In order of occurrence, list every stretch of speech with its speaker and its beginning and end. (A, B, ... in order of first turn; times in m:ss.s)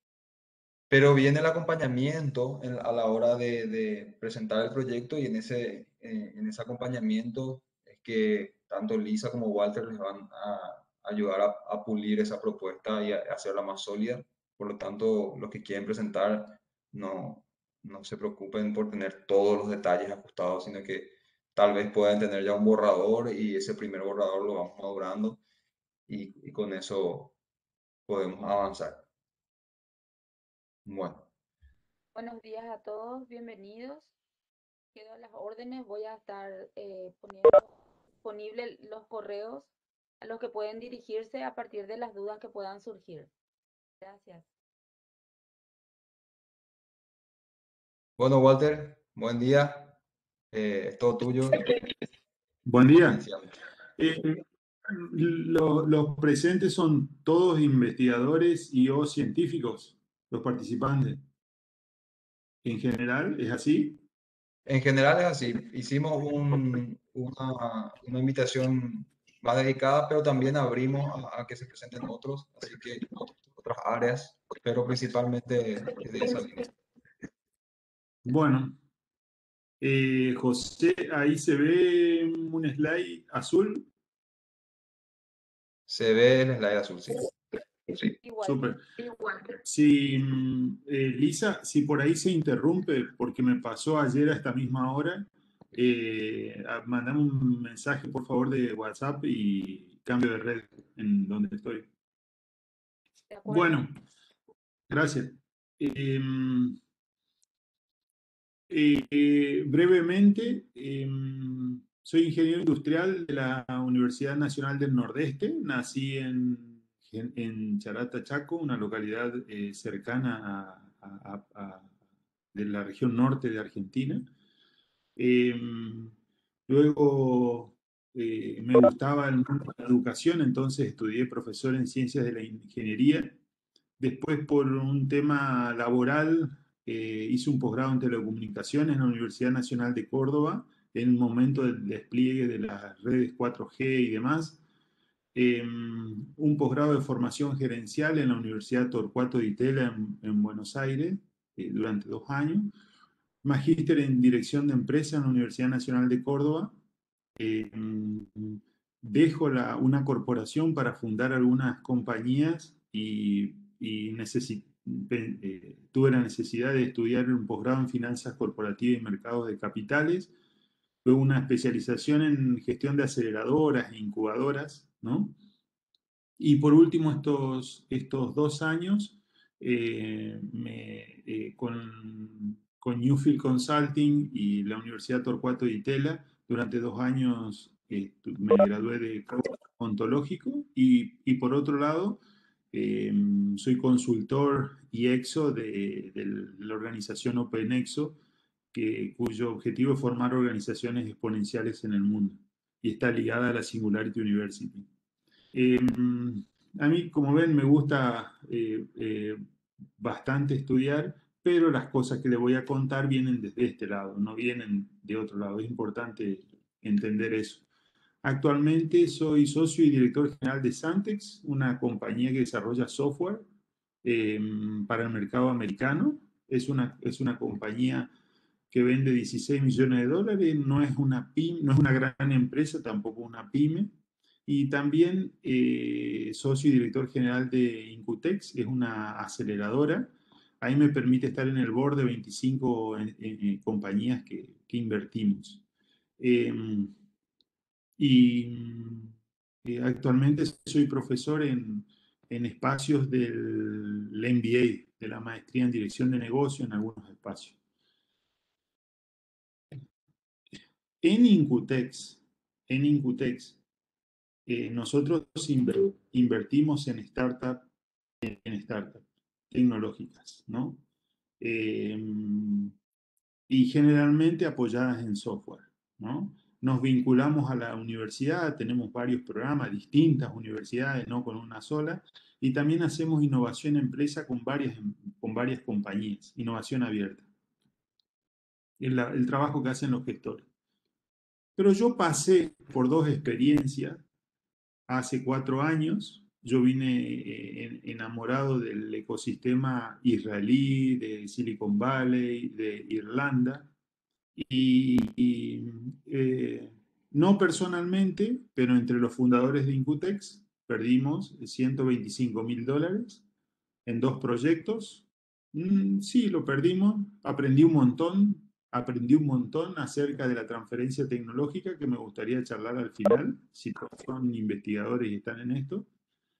0:00.9-0:25.4 A
0:26.1-0:27.3 A
0:28.1-0:29.0 A
0:30.8-0:31.3 A
0:32.1-0:34.1 B
0:34.9-0:37.7 B
0:38.2-0:39.7 B
0:40.2-0:43.3 B
0:44.0-0:44.4 B
0:48.2-0:50.0 A
0:50.5-0:51.7 A
0:52.6-0:53.2 C
0:53.0-0:53.5 A
0:54.0-1:01.2 C
1:02.6-1:04.0 C
1:04.6-1:16.7 A
1:18.2-1:18.8 C
1:19.8-1:23.8 C
1:25.9-1:27.3 A
1:28.2-1:29.3 B
1:28.4-1:28.8 C
1:29.6-1:41.9 C
1:43.3-1:43.8 B
1:43.4-1:43.9 C
1:44.9-1:46.8 C
1:48.7-2:01.9 C
2:02.5-2:04.3 C
2:05.2-2:06.1 C
2:06.7-2:13.4 C
2:14.0-2:24.6 C
2:25.3-2:32.7 C
2:33.4-2:36.8 C
2:37.4-2:50.3 C
2:51.0-2:55.4 C
2:56.4-3:18.2 C
3:18.7-3:24.9 C
3:25.5-3:29.4 C
3:30.0-3:37.6 C
3:38.2-3:43.4 C
3:44.0-3:48.1 C
3:48.7-3:53.9 C
3:54.5-4:05.6 C
4:06.2-4:06.9 C
4:08.0-4:09.1 C
4:09.6-4:17.6 C
4:21.0-4:23.6 C
4:24.4-4:27.7 C
4:28.2-4:30.8 C
4:31.4-4:32.7 C
4:33.5-4:47.2 C
4:48.8-4:50.4 C
4:51.6-4:54.0 C
4:54.9-5:03.7 C
5:04.3-5:13.2 C
5:13.8-5:25.9 C